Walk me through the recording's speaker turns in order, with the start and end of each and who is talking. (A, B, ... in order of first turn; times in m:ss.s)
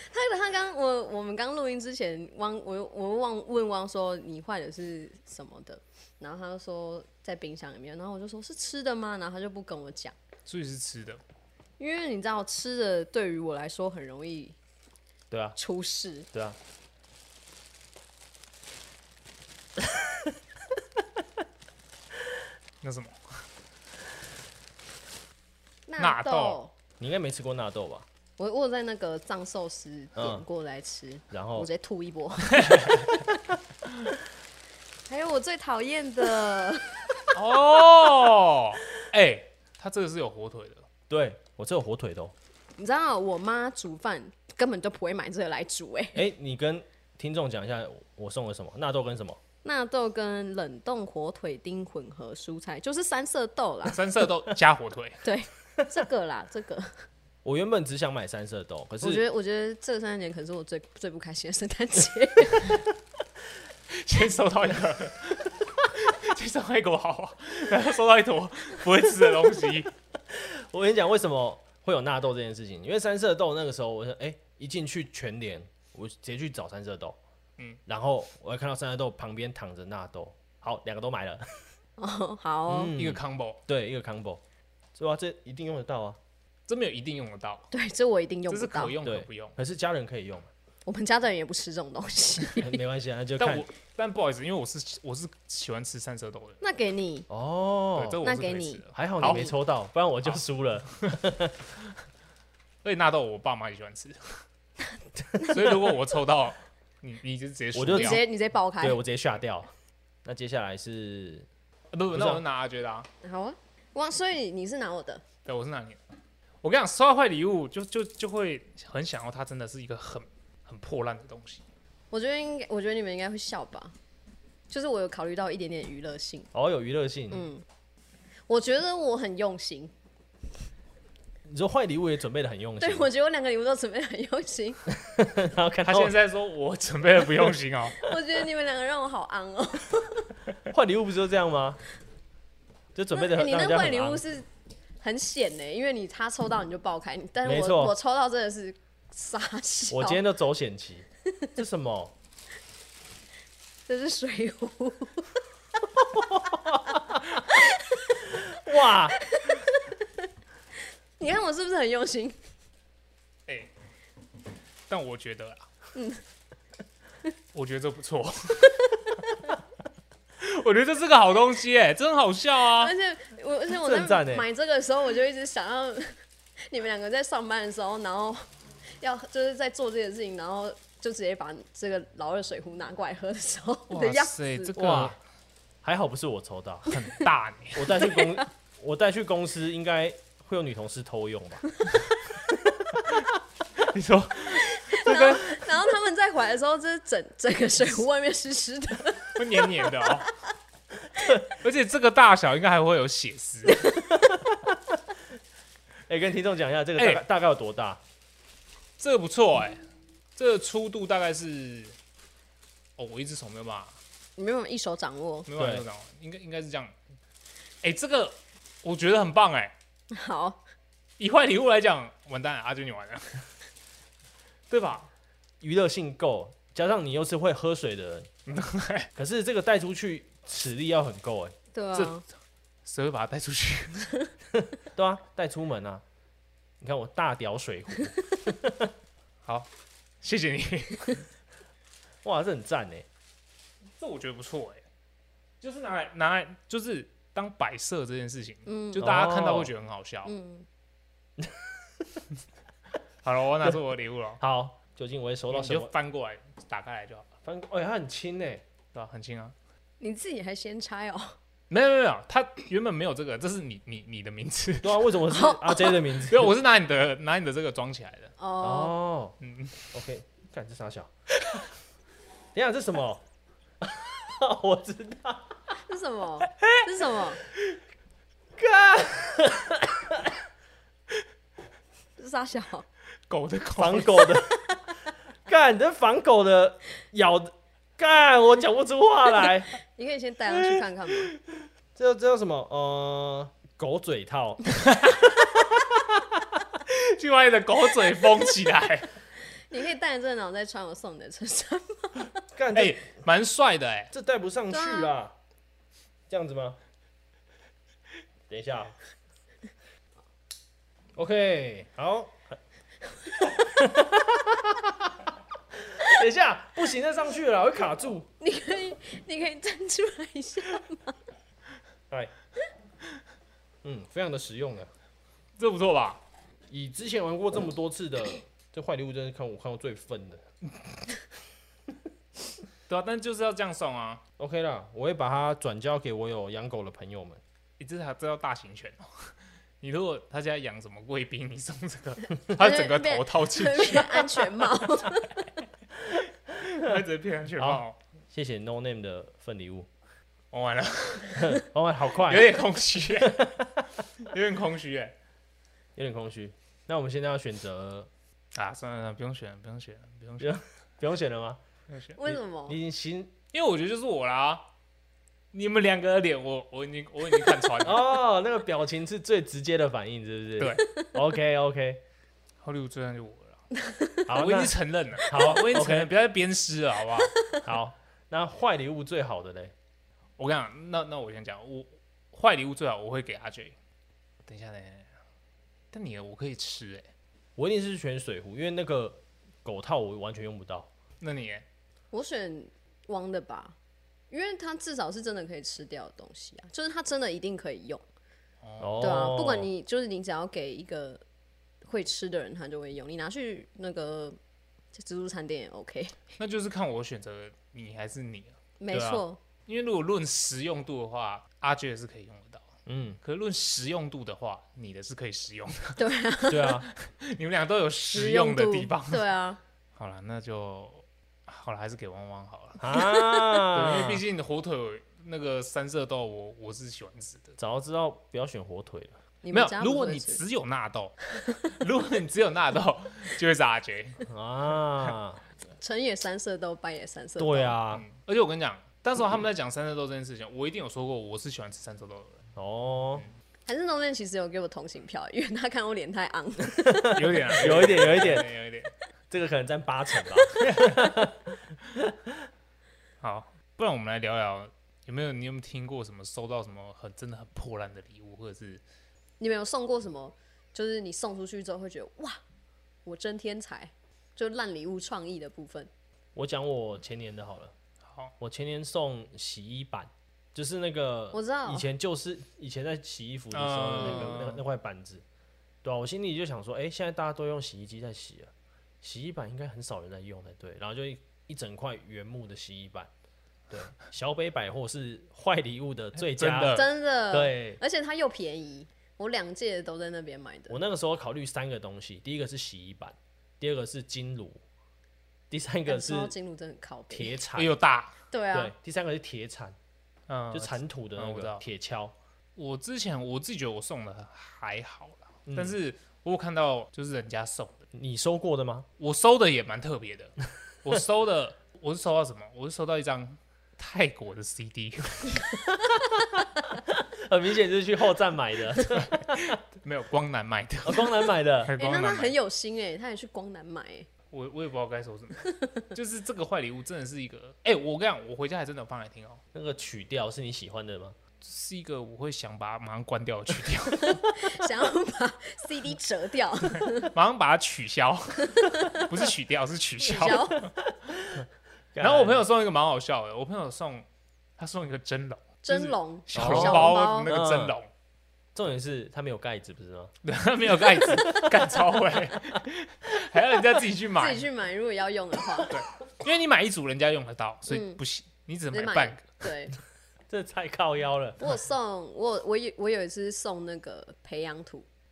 0:00.1-0:10.1 A
0:10.5-0:11.2 B
0:11.8-0:14.6 A
0:15.3-0:15.6 C
0:15.6-0:16.3 A
0:19.8-0:20.3 C
0:22.8-0:23.4 B
0:25.9-0:26.7 A
0:26.0-0:26.6 B
0:27.0-0:28.1 C
0:28.4-0:32.9 A
0:30.2-0:30.4 C
0:31.3-0:31.7 C
0:32.5-0:33.1 B
0:35.1-0:37.3 A
0:37.3-0:40.8 B
0:41.1-0:42.3 C
0:42.8-0:46.2 A
0:46.2-0:49.4 C
0:49.6-0:54.0 A
0:53.9-0:55.2 B
0:55.2-0:57.1 A
0:57.4-0:59.2 C
0:59.0-1:02.8 A
1:03.9-1:09.9 B
1:10.3-1:17.2 C
1:17.9-1:21.7 C
1:22.0-1:23.0 A
1:22.7-1:24.4 C
1:23.0-1:23.6 B
1:25.0-1:26.2 C
1:26.7-1:27.7 B
1:27.7-1:29.0 A
1:28.5-1:29.6 B
1:29.0-1:30.5 C
1:30.9-1:32.8 A
1:32.6-1:33.7 C
1:33.4-1:36.6 B
1:36.6-1:37.3 A
1:37.3-1:38.2 C
1:38.0-1:39.5 B
1:38.2-1:39.5 A
1:38.9-1:41.6 C
1:42.8-1:44.4 B
1:45.4-1:48.2 B
1:47.7-1:48.2 C
1:47.9-1:49.0 A
1:48.8-1:49.7 C
1:50.2-1:51.5 C
1:51.9-1:53.1 B
1:52.1-1:52.4 C
1:53.2-1:55.2 A
1:55.5-1:56.0 B
1:56.6-2:01.6 B
2:02.1-2:03.9 A
2:04.7-2:06.5 A
2:06.5-2:07.5 C
2:07.3-2:07.6 A
2:08.5-2:09.9 A
2:11.5-2:13.1 C
2:12.8-2:14.8 A
2:15.0-2:16.2 C
2:15.8-2:18.0 B
2:18.0-2:20.3 A
2:20.7-2:21.8 C
2:23.0-2:24.2 C
2:23.1-2:24.5 A
2:25.0-2:30.2 A
2:27.4-2:27.9 C
2:29.9-2:32.1 C
2:33.9-2:35.4 A
2:36.0-2:37.4 C
2:37.5-2:38.3 A
2:38.3-2:39.2 C
2:39.1-2:39.9 A
2:41.2-2:42.4 A
2:44.9-2:45.7 B
2:46.0-2:46.2 A
2:47.5-2:48.9 B
2:50.4-2:52.9 B
2:52.7-2:58.5 A
2:53.7-2:54.5 C
2:59.0-3:04.8 A
3:03.9-3:05.2 B
3:04.8-3:05.2 C
3:05.8-3:06.9 C
3:06.9-3:08.0 B
3:07.8-3:11.7 C
3:08.0-3:08.5 A
3:12.5-3:13.2 C
3:13.8-3:15.5 B
3:14.5-3:20.2 A
3:19.4-3:20.3 B
3:21.6-3:23.9 B
3:24.3-3:25.0 C
3:26.1-3:28.0 C
3:27.0-3:27.2 B
3:29.0-3:29.8 B
3:30.4-3:32.0 B
3:33.0-3:34.0 B
3:34.4-3:35.5 A
3:35.5-3:36.9 B
3:35.6-3:35.8 C
3:37.8-3:39.7 B
3:40.1-3:40.6 A
3:41.2-3:43.4 B
3:44.7-3:45.1 B
3:45.6-3:48.3 C
3:48.5-3:49.1 B
3:49.2-3:51.6 C
3:51.7-3:52.2 A
3:51.9-3:52.2 B
3:52.8-3:54.1 B
3:54.6-3:56.0 C
3:56.8-3:58.9 C
4:00.2-4:01.2 B
4:02.2-4:03.1 C
4:04.0-4:04.8 B
4:05.6-4:10.3 B
4:08.7-4:09.1 A
4:09.0-4:09.7 C
4:10.2-4:10.7 A
4:11.4-4:12.2 C
4:13.2-4:14.4 B
4:14.4-4:15.9 C
4:15.5-4:17.3 B
4:17.4-4:18.6 C
4:18.9-4:19.6 B
4:20.0-4:21.4 A
4:21.7-4:25.0 B
4:24.8-4:26.5 C
4:25.3-4:26.0 A
4:26.3-4:28.3 B
4:28.4-4:29.0 A
4:28.6-4:29.4 C
4:29.4-4:29.9 B
4:29.9-4:31.1 C
4:32.5-4:33.2 C
4:33.8-4:35.8 C
4:35.9-4:37.4 A
4:38.6-4:40.4 C
4:42.2-4:42.9 A
4:43.3-4:44.3 B
4:43.8-4:44.6 C
4:45.5-4:49.7 C
4:49.9-4:51.3 A
4:52.0-4:54.6 C
4:54.9-4:55.2 B
4:55.9-4:56.4 C
4:56.9-4:59.1 B
4:59.7-5:02.4 A
5:02.6-5:03.0 C
5:02.7-5:04.1 B
5:04.1-5:05.3 C
5:04.7-5:05.1 A
5:06.3-5:06.8 C
5:08.5-5:09.0 C
5:11.2-5:12.6 C
5:13.4-5:15.2 C
5:15.8-5:18.3 C
5:18.4-5:21.2 A
5:23.8-5:24.9 C
5:25.6-5:26.2 B
5:26.7-5:30.5 C
5:32.9-5:34.2 B
5:34.4-5:37.4 C
5:37.8-5:44.4 B
5:42.6-5:45.5 A
5:46.6-5:48.0 B
5:47.6-5:49.9 C
5:50.5-5:51.6 B
5:51.4-5:52.6 C
5:52.2-5:53.5 B
5:53.3-5:53.7 C
5:54.2-5:55.2 B
5:56.0-5:58.1 C
5:58.5-6:00.6 B
6:00.4-6:01.6 C
6:01.9-6:02.2 B
6:02.2-6:02.8 A
6:02.2-6:03.3 C
6:03.5-6:04.6 B
6:05.5-6:08.0 B
6:07.8-6:12.0 C
6:10.6-6:10.8 B
6:10.8-6:11.1 A
6:12.6-6:13.6 B
6:13.8-6:14.2 A
6:14.3-6:16.1 C
6:14.3-6:17.3 B
6:17.3-6:17.6 A
6:17.6-6:19.7 C
6:20.4-6:23.8 B
6:24.5-6:25.1 B
6:25.9-6:27.1 B
6:27.6-6:30.9 C
6:31.2-6:31.7 B
6:32.1-6:33.8 A
6:34.3-6:38.0 A
6:38.6-6:39.1 B
6:38.8-6:39.7 C
6:39.0-6:41.2 A
6:41.8-6:44.4 A
6:44.9-6:46.2 A
6:46.4-6:52.7 B
6:48.8-6:49.4 A
6:52.9-6:53.2 C
6:53.2-6:56.0 B
6:56.0-6:56.8 A
6:56.5-6:56.9 C
6:57.0-6:59.2 B
6:58.1-6:59.6 A
7:00.0-7:03.0 B
7:02.8-7:04.2 C
7:02.9-7:03.6 A
7:03.7-7:07.6 B
7:07.6-7:09.2 C
7:09.4-7:10.4 A
7:09.5-7:14.2 B
7:14.3-7:15.4 C
7:15.8-7:17.8 A
7:17.4-7:18.1 C
7:17.9-7:22.4 B
7:22.6-7:23.2 C
7:23.7-7:28.4 A
7:26.9-7:28.5 C
7:27.1-7:28.9 B
7:29.3-7:32.4 C
7:30.6-7:31.0 B
7:33.2-7:38.8 B
7:39.4-7:42.4 A
7:43.1-7:45.9 A
7:46.4-7:47.7 C
7:48.4-7:55.2 C
7:51.3-7:51.9 A
7:53.5-7:54.6 B
7:54.0-7:54.4 A
7:55.8-7:58.5 C
7:59.0-8:03.1 C
8:03.7-8:07.8 C
8:06.2-8:06.9 B
8:06.7-8:10.8 A
8:10.7-8:14.6 C
8:15.5-8:16.3 C
8:15.9-8:17.4 A
8:17.1-8:17.7 C
8:17.6-8:18.1 B
8:18.3-8:18.7 A
8:18.5-8:19.8 C
8:20.3-8:21.6 B
8:20.5-8:22.2 C
8:22.6-8:27.8 B
8:25.5-8:25.8 C
8:27.9-8:28.9 C
8:29.0-8:35.5 B
8:36.9-8:39.6 C
8:39.0-8:42.4 B
8:40.8-8:41.7 C
8:41.8-8:44.1 A
8:44.3-8:49.4 B
8:45.4-8:45.7 A
8:49.5-8:51.2 C
8:51.4-8:54.3 B
8:53.9-8:57.1 A
8:57.0-9:00.7 B
8:58.5-8:59.0 A
9:00.0-9:00.7 A
9:01.1-9:02.4 C
9:02.0-9:04.1 B
9:04.6-9:07.9 B
9:05.6-9:07.3 A
9:06.4-9:07.8 C
9:08.6-9:10.2 C
9:10.2-9:14.4 B
9:11.0-9:11.4 C
9:14.2-9:15.8 A
9:15.7-9:19.3 B
9:17.7-9:18.0 A
9:18.7-9:19.8 A
9:20.3-9:21.6 C
9:21.4-9:24.9 A